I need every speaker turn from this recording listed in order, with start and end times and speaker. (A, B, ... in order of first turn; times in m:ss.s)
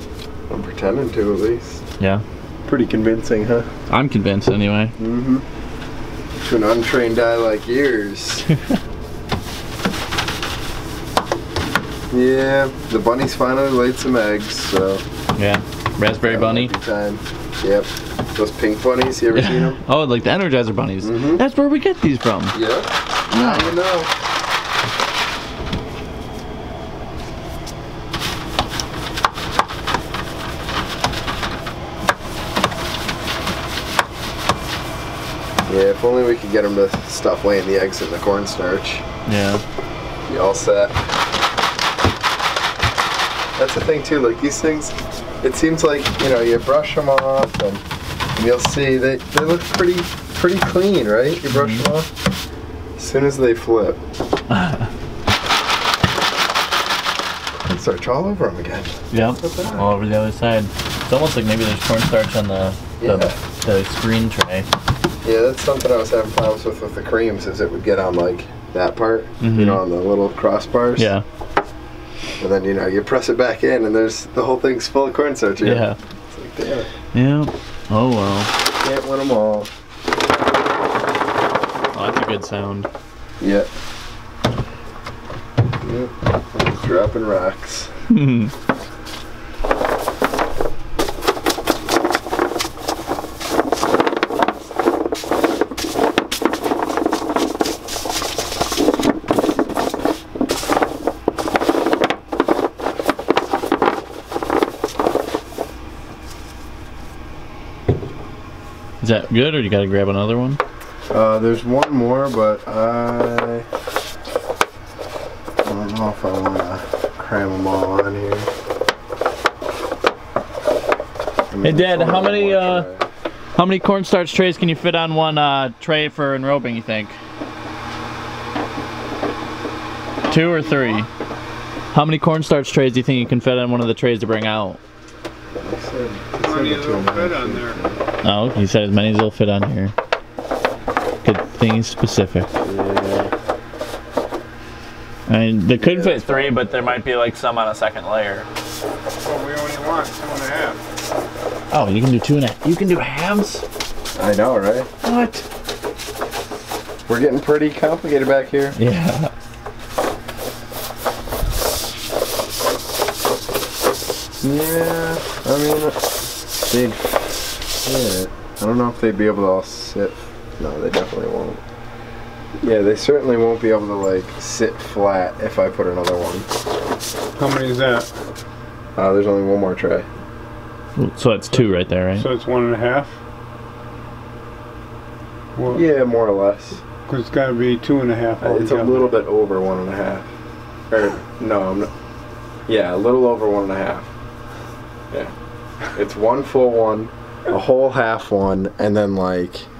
0:00.5-0:01.8 A
0:02.6-0:03.7 A
0:03.9-0:04.9 B
0:05.0-0:05.4 A
0:06.4-0:08.4 A
0:12.1-0:15.0 A
0:15.3-0:16.7 B
0:16.2-0:19.8 A
0:19.3-0:22.6 B
0:21.0-0:21.4 A
0:22.5-0:24.1 A
0:23.3-0:23.7 B
0:35.6-0:39.0 A
0:39.2-0:39.6 B
0:40.3-0:41.0 A
0:43.6-0:47.8 A
0:48.3-0:52.1 A
0:51.5-0:51.8 B
0:53.0-0:54.0 A
0:54.5-0:54.9 B
0:57.6-0:59.9 A
0:59.1-1:04.7 B
1:03.0-1:03.3 A
1:05.2-1:11.1 A
1:09.4-1:09.8 B
1:11.0-1:11.2 B
1:12.4-1:16.9 A
1:15.6-1:16.0 B
1:17.1-1:18.5 B
1:18.8-1:19.7 A
1:21.9-1:22.9 B
1:23.4-1:23.7 A
1:25.8-1:27.9 A
1:28.1-1:28.5 B
1:49.0-1:50.6 B
1:51.1-1:53.7 A
1:55.6-1:58.5 A
2:01.5-2:03.0 A
2:01.6-2:02.9 B
2:03.6-2:07.2 B
2:10.2-2:11.1 B
2:11.9-2:14.8 B
2:15.5-2:18.0 A
2:16.4-2:17.8 C
2:18.2-2:19.9 B
2:21.2-2:22.5 B
2:22.6-2:23.3 A
2:25.3-2:28.5 B
2:25.8-2:27.0 A
2:29.2-2:30.8 C
2:31.7-2:33.6 B
2:34.1-2:34.9 A
2:35.0-2:35.4 B
2:37.1-2:38.8 A
2:38.8-2:39.3 B
2:44.4-2:51.6 A
2:52.6-2:56.5 A
2:57.4-2:58.1 C
2:59.0-3:00.1 A
3:01.0-3:02.3 B
3:01.5-3:03.2 C
3:05.6-3:05.8 C
3:05.7-3:06.8 A
3:07.1-3:09.1 C
3:08.4-3:10.3 A
3:10.9-3:11.9 A
3:12.7-3:14.1 A
3:15.9-3:19.7 A